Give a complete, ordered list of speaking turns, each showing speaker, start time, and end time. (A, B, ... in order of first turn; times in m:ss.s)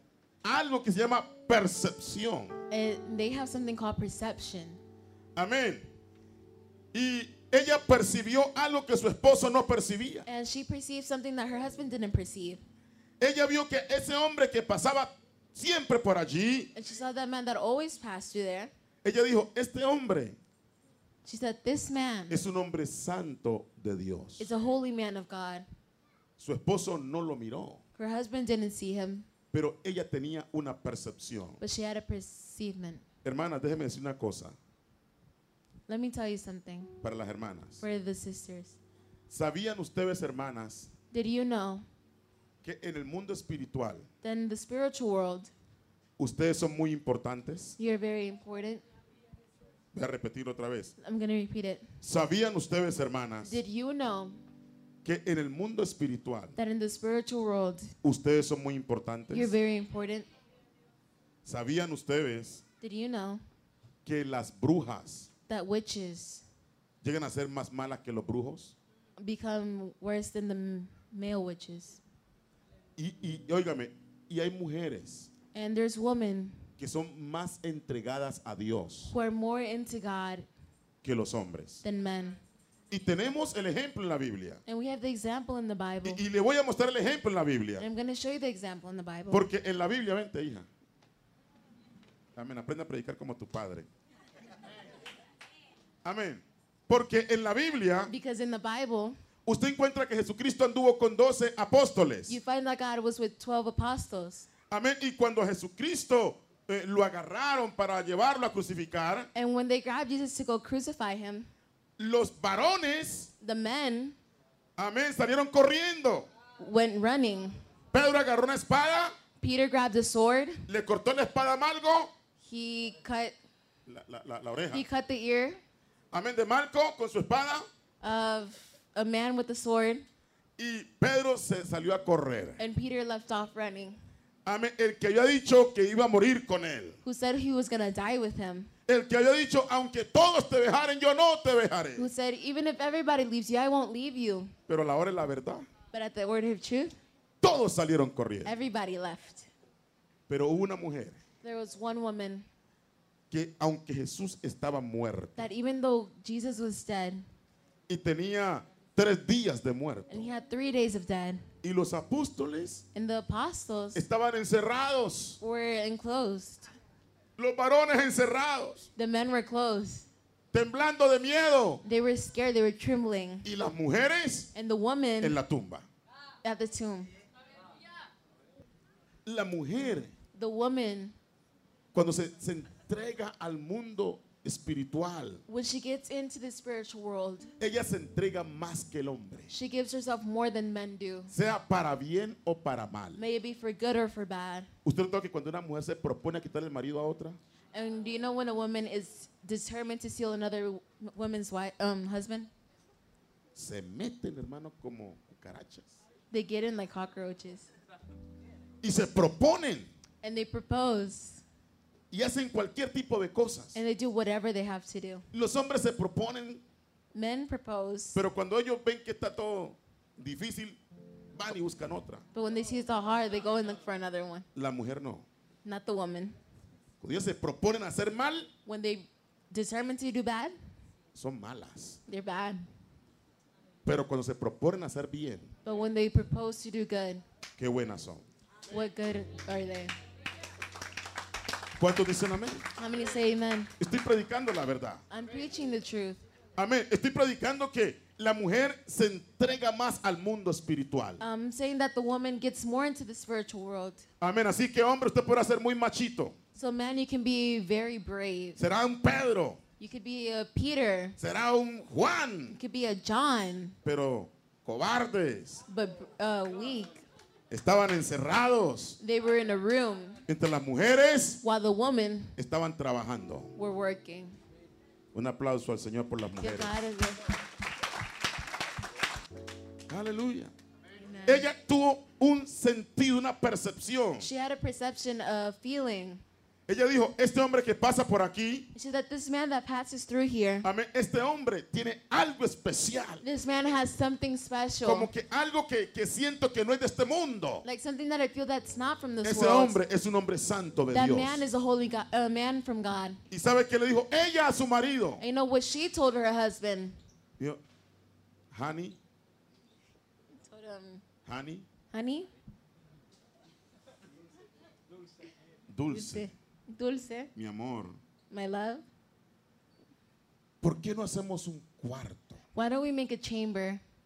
0:00.4-0:02.6 A
0:02.7-0:04.8 B
0:05.4-0:05.9 A
0:06.9-0:10.3 A
0:10.3-0:12.6 B
0:13.2-0:16.7 A
0:16.7-0:18.7 B
0:19.0-0:20.4 A
0:21.2-0:22.4 B
0:22.3-0:24.5 A
0:24.4-0:25.7 B
0:26.4-0:27.8 A
0:28.0-0:29.3 B
0:29.5-0:31.6 A
0:31.6-0:33.0 B
0:33.2-0:34.6 A
0:35.9-0:37.0 B
0:37.0-0:37.8 A
0:37.8-0:38.8 B
0:39.3-0:40.9 A
0:41.1-0:41.9 B
0:42.6-0:44.1 A
0:44.2-0:45.5 B
0:46.2-0:47.8 A
0:47.8-0:48.8 B
0:49.9-0:51.0 A
0:51.0-0:51.9 B
0:52.0-0:53.6 A
0:53.4-0:54.4 B
0:55.0-0:56.6 A
0:56.6-0:57.9 B
0:58.0-0:59.5 A
0:59.3-1:00.3 B
1:01.4-1:02.6 A
1:02.8-1:03.4 B
1:04.0-1:05.3 A
1:05.5-1:06.4 B
1:07.0-1:08.8 A
1:09.2-1:12.0 B
1:13.0-1:15.3 A
1:15.5-1:16.7 B
1:16.8-1:19.1 A
1:19.1-1:20.5 B
1:21.0-1:21.8 A
1:21.8-1:22.4 B
1:22.9-1:24.6 A
1:24.7-1:26.2 B
1:26.0-1:27.9 A
1:27.8-1:29.5 B
1:29.3-1:30.7 A
1:32.4-1:33.9 A
1:36.0-1:38.1 A
1:38.1-1:39.2 B
1:39.5-1:42.4 A
1:42.3-1:44.5 B
1:44.7-1:49.3 A
1:49.4-1:51.5 B
1:52.0-1:53.3 A
1:53.4-1:54.2 B
1:54.8-1:56.3 A
1:56.6-1:57.6 B
1:57.9-1:59.2 A
1:59.4-2:00.7 B
2:00.7-2:02.1 A
2:02.4-2:03.3 B
2:03.9-2:04.8 A
2:04.7-2:05.6 B
2:06.1-2:07.7 A
2:08.0-2:10.1 B
2:10.6-2:12.6 A
2:12.6-2:14.0 B
2:14.4-2:17.0 A
2:17.0-2:18.7 B
2:18.9-2:22.1 A
2:22.0-2:24.5 B
2:24.7-2:25.7 A
2:25.9-2:27.0 B
2:27.4-2:28.5 A
2:28.4-2:29.5 B
2:30.3-2:31.2 A
2:31.4-2:32.5 B
2:33.3-2:35.5 A
2:35.4-2:37.3 B
2:37.9-2:40.3 A
2:40.1-2:41.5 B
2:41.6-2:42.8 A
2:42.9-2:44.0 B
2:43.9-2:45.4 A
2:45.4-2:46.7 B
2:47.4-2:48.9 A
2:49.0-2:50.1 B
2:50.5-2:51.8 A
2:51.8-2:53.5 B
2:53.4-2:54.5 A
2:54.5-2:55.4 B
2:55.2-2:55.9 A
2:56.4-2:57.1 B
2:59.2-3:00.1 A
3:00.3-3:01.2 B
3:01.9-3:05.4 A
3:05.5-3:07.5 B
3:07.6-3:09.5 A
3:09.5-3:11.3 B
3:11.3-3:13.2 A
3:13.2-3:14.7 B
3:14.8-3:17.4 A
3:17.7-3:22.5 B
3:23.5-3:26.0 A
3:26.3-3:27.7 B
3:28.8-3:29.9 A
3:30.2-3:31.4 B
3:32.1-3:33.8 A
3:33.7-3:35.3 B
3:35.3-3:36.6 A
3:37.1-3:38.2 B
3:38.2-3:40.8 A
3:41.3-3:42.2 A
3:42.3-3:44.5 B
3:44.6-3:45.3 A
3:45.6-3:46.4 B
3:47.0-3:48.5 A
3:48.7-3:50.6 B
3:51.1-3:52.0 A
3:52.1-3:52.6 B
3:53.8-3:55.5 A
3:55.6-3:57.2 B
3:57.6-3:58.3 A
3:58.7-4:00.0 B
4:01.8-4:02.7 A
4:02.8-4:03.7 B
4:03.8-4:05.0 A
4:05.1-4:06.2 B
4:06.6-4:11.2 A
4:11.2-4:14.1 B
4:14.2-4:16.4 A
4:16.6-4:18.6 B
4:18.6-4:19.6 A
4:19.8-4:21.2 B
4:21.2-4:22.6 A
4:22.5-4:23.8 B
4:23.8-4:25.6 A
4:25.7-4:27.0 B
4:27.5-4:29.0 A
4:29.0-4:30.2 B
4:30.3-4:31.4 A
4:31.4-4:32.4 B
4:32.4-4:33.5 A
4:33.6-4:34.4 B
4:35.1-4:36.8 A
4:36.4-4:37.3 B
4:39.9-4:40.5 A
4:41.0-4:41.5 B
4:41.3-4:44.3 A
4:44.2-4:46.2 B
4:46.7-4:48.7 A
4:48.7-4:50.7 B
4:50.6-4:53.2 A
4:53.2-4:55.1 B
4:54.8-4:57.6 A
4:57.6-4:59.8 B
4:59.2-5:01.4 A
5:00.9-5:03.2 B
5:03.3-5:05.2 A
5:05.2-5:07.0 B
5:08.5-5:09.0 A
5:10.3-5:11.0 B
5:11.3-5:11.7 A
5:11.9-5:12.3 B
5:15.7-5:16.3 A
5:15.9-5:17.3 B
5:17.4-5:18.0 A
5:18.3-5:18.9 B
5:20.6-5:22.4 A
5:22.5-5:23.8 B